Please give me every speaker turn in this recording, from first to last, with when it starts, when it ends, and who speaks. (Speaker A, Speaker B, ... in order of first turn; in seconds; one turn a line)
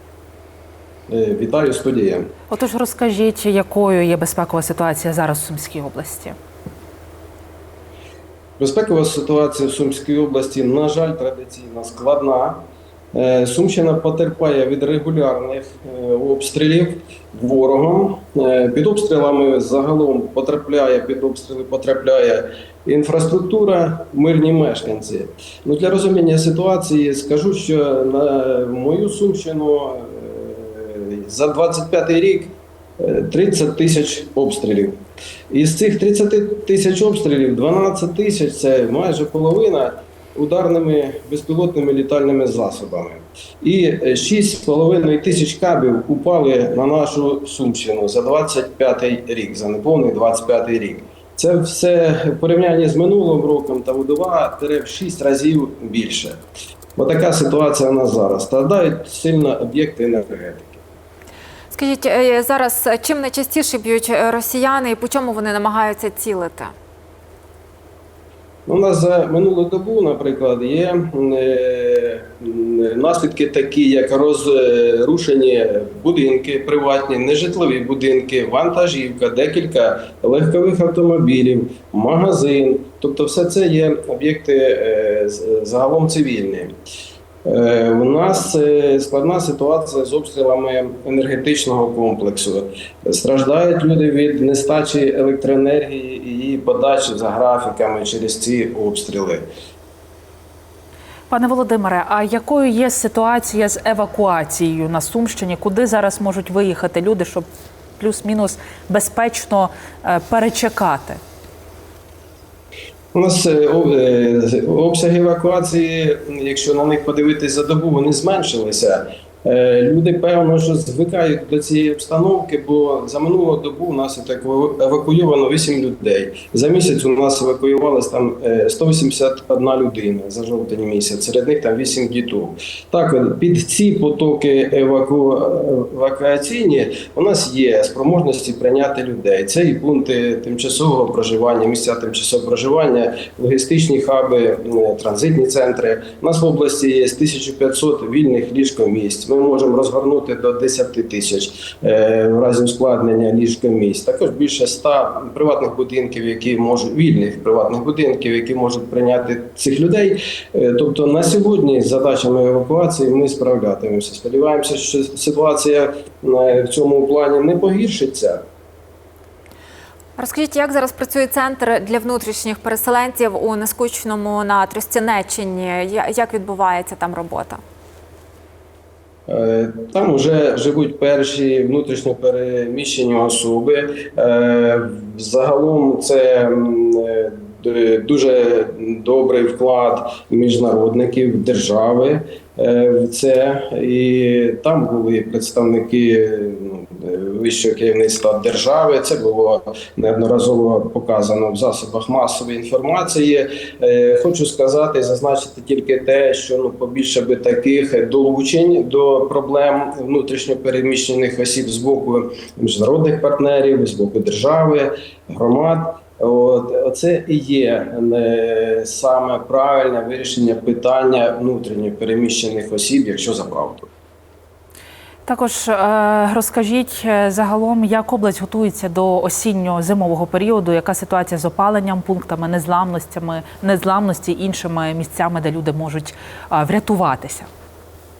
Speaker A: 1.1-2.3
Speaker B: 2.5-6.4
Speaker A: 8.6-56.4
Speaker A: 57.0-60.8
Speaker C: 61.7-66.7
Speaker A: 68.7-86.8
Speaker A: 87.5-99.5
Speaker B: 101.3-107.5
Speaker B: 108.0-111.2
Speaker A: 113.1-168.4
Speaker C: 170.2-177.6
Speaker A: 179.3-223.9
Speaker B: 225.2-237.5